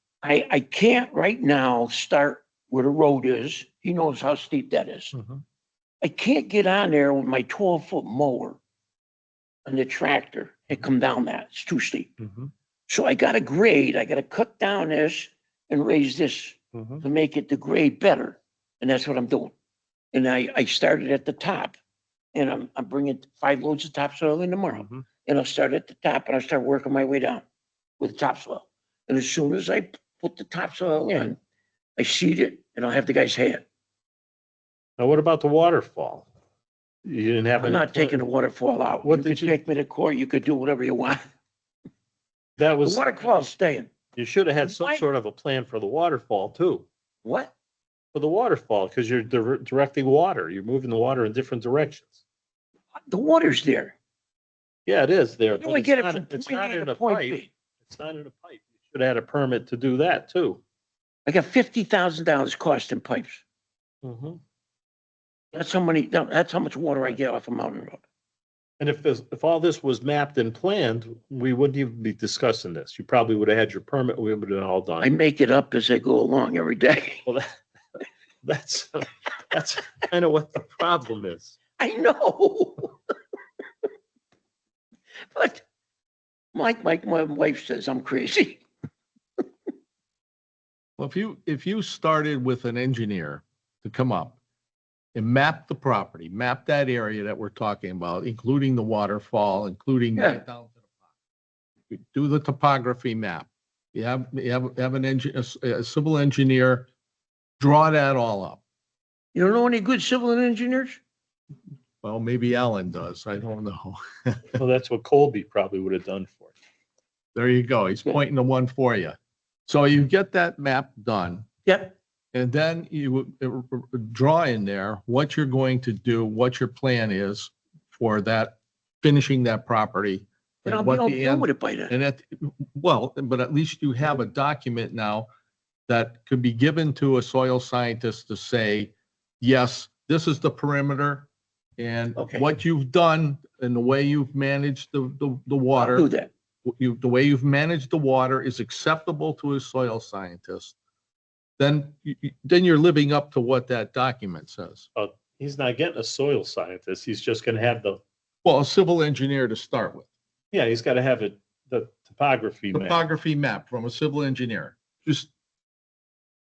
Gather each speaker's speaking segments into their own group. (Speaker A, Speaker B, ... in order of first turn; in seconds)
Speaker A: 0.2-5.1, 6.0-8.6, 9.7-12.1, 12.9-19.5, 20.1-21.8, 22.3-27.4, 28.0-31.4, 32.0-33.7, 37.6-41.2, 42.8-43.9, 44.6-45.0, 47.2-47.5, 53.0-54.0, 55.6-57.5, 61.3-63.4, 65.5-68.0, 75.0-77.2, 81.8-83.0, 85.3-85.6, 86.5-88.6, 100.2-100.4, 109.3-111.0, 121.7-122.0, 130.7-131.9, 142.2-142.5, 145.8-146.3
Speaker B: 5.1-5.4, 12.2-12.5, 16.7-17.0, 24.8-25.1, 35.0-36.3, 37.1-38.2, 39.0-39.6, 42.6-43.5, 44.2-46.9, 48.1-52.2, 54.9-60.6, 64.0-64.4, 68.8-75.1, 78.5-81.6, 114.6-116.5, 155.0-158.0, 160.5-163.0
Speaker C: 91.0-94.4, 95.2-100.8, 101.9-106.9, 107.6-108.6, 112.0-114.6, 117.3-121.5, 122.3-135.3, 135.9-146.1, 146.7-150.8, 151.6-154.9, 158.4-160.1, 162.7-165.3